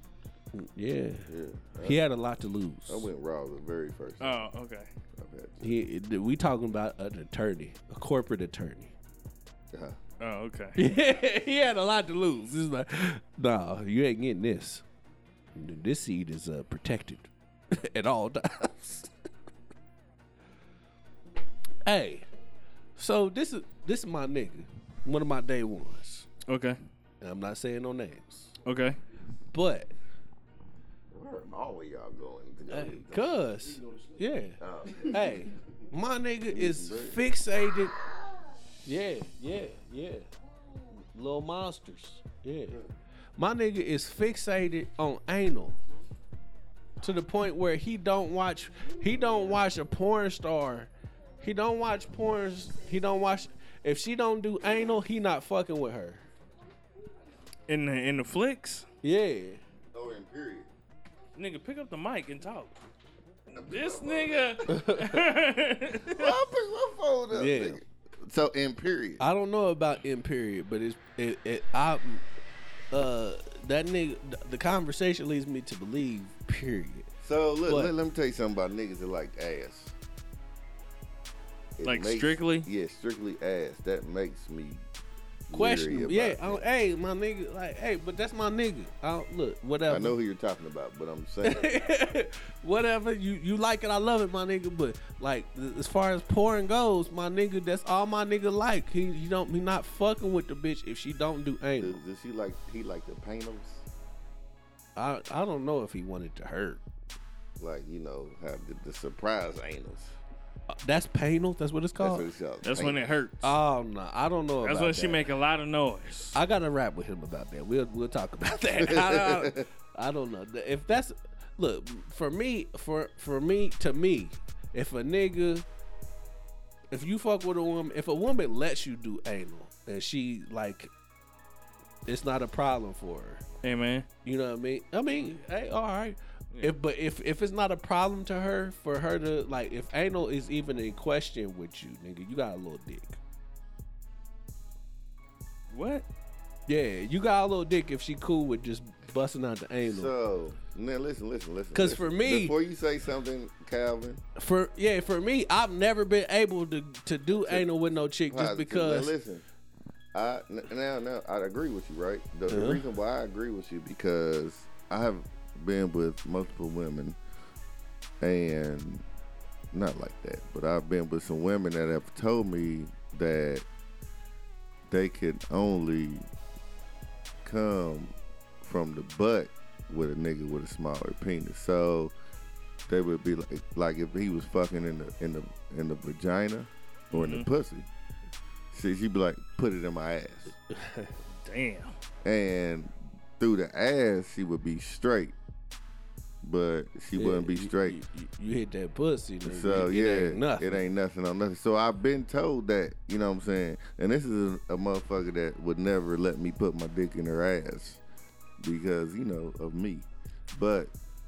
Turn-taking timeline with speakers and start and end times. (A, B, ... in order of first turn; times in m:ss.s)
0:00.5-0:01.3 A
0:01.3-0:02.0 B
0:01.8-0:03.1 A
0:02.9-0:04.4 B
0:04.2-0:04.9 C
0:05.2-0:05.6 B
0:05.6-0:08.9 A
0:09.7-0:10.0 B
0:10.2-0:10.8 C
0:10.8-0:14.8 A
0:15.5-0:19.1 A
0:21.8-0:22.2 A
0:23.0-0:26.3 A
0:26.5-0:26.8 C
0:27.2-0:28.5 A
0:28.6-0:29.0 C
0:29.5-0:29.9 A
0:31.1-0:33.4 B
0:32.7-0:37.9 A
0:34.6-0:35.4 B
0:36.5-0:37.2 B
0:38.8-0:40.3 A
0:40.9-0:42.8 A
0:43.4-0:45.8 A
0:47.0-0:56.2 A
0:57.7-0:58.8 C
0:59.0-0:59.6 A
0:59.9-1:00.7 B
1:01.4-1:02.8 C
1:03.5-1:04.6 B
1:03.7-1:06.4 C
1:04.7-1:05.2 A
1:06.0-1:09.2 B
1:07.3-1:07.8 A
1:09.2-1:12.2 A
1:12.9-1:17.1 A
1:17.2-1:19.9 B
1:17.6-1:17.9 A
1:21.8-1:24.8 B
1:21.8-1:22.7 C
1:25.5-1:26.6 B
1:25.5-1:30.2 A
1:29.9-1:31.7 B
1:31.4-1:42.0 A
1:41.8-1:43.8 B
1:45.0-1:46.8 A
1:47.6-1:50.1 B
1:50.8-1:52.3 A
1:52.0-1:53.2 B
1:52.6-1:53.5 C
1:53.4-1:55.2 A
1:54.6-1:56.4 C
1:56.3-2:05.6 A
1:58.8-1:59.6 B
2:06.9-2:10.9 A
2:12.0-2:13.4 A
2:13.6-2:14.1 C
2:14.2-2:23.2 A
2:25.7-2:26.0 C
2:26.7-2:30.1 A
2:29.8-2:34.2 B
2:31.7-2:32.5 A
2:34.4-2:39.1 A
2:37.3-2:37.7 B
2:38.3-2:39.4 B
2:40.1-2:47.2 B
2:42.5-2:42.8 A
2:48.2-2:49.0 B
2:49.7-2:53.6 B
2:54.9-2:56.2 B
2:57.4-3:02.1 B
3:02.9-3:07.9 B
3:07.1-3:07.5 C
3:08.7-3:10.5 B
3:10.7-3:11.2 A
3:11.4-3:11.9 C
3:12.2-3:15.3 B
3:16.4-3:18.0 B
3:17.1-3:20.8 A
3:19.4-3:28.0 B
3:28.6-3:30.9 B